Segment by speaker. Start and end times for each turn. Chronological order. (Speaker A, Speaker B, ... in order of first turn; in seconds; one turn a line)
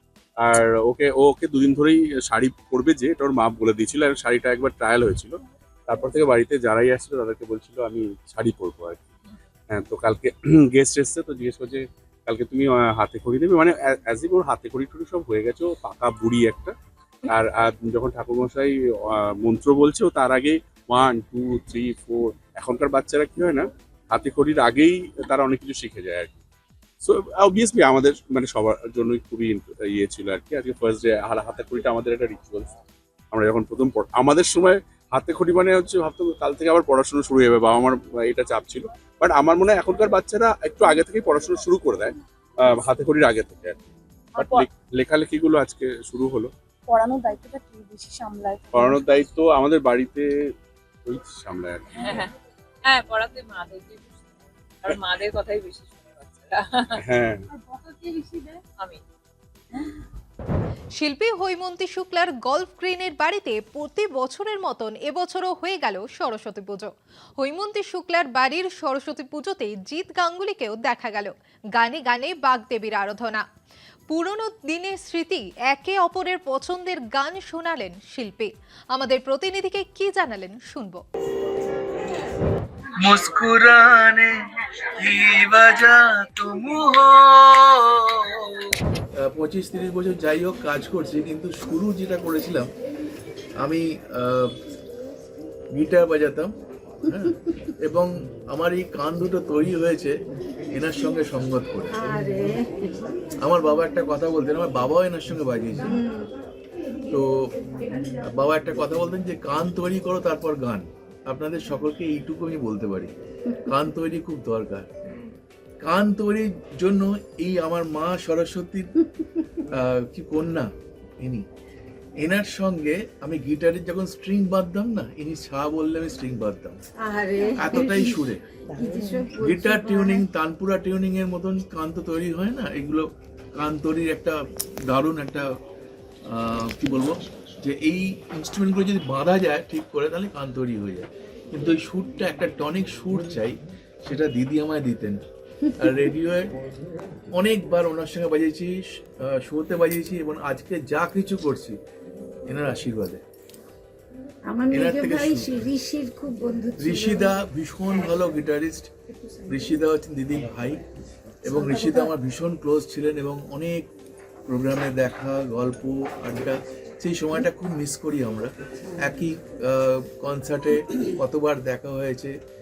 Speaker A: 0.4-9.1
Speaker A: 9.7-16.7
Speaker A: 17.3-26.4
Speaker A: 27.0-32.7
Speaker A: 33.3-43.8
Speaker B: 44.3-44.7
Speaker A: 44.3-46.5
Speaker B: 47.0-48.9
Speaker A: 48.7-50.2
Speaker A: 51.0-52.2
Speaker C: 51.9-52.3
Speaker C: 52.8-57.0
Speaker A: 57.0-57.5
Speaker C: 57.8-59.0
Speaker D: 61.0-73.4
Speaker D: 74.1-81.0
Speaker E: 83.0-84.3
Speaker E: 85.0-88.0
Speaker E: 89.2-92.7
Speaker E: 93.6-94.5
Speaker E: 95.7-100.1
Speaker E: 100.7-101.9
Speaker F: 102.0-102.6
Speaker E: 103.4-106.0
Speaker E: 107.1-107.5
Speaker E: 108.2-113.1
Speaker E: 113.7-114.9
Speaker E: 115.8-118.9
Speaker E: 119.7-120.7
Speaker E: 122.2-126.8
Speaker F: 127.0-128.2
Speaker E: 127.5-135.4
Speaker F: 128.8-130.2
Speaker E: 136.2-145.2
Speaker E: 145.8-146.5
Speaker E: 147.3-151.8
Speaker E: 152.5-153.2
Speaker F: 154.5-157.2
Speaker E: 154.7-155.6
Speaker E: 156.8-158.9
Speaker E: 159.5-160.8
Speaker E: 161.4-163.9
Speaker E: 164.5-168.5
Speaker E: 169.0-172.3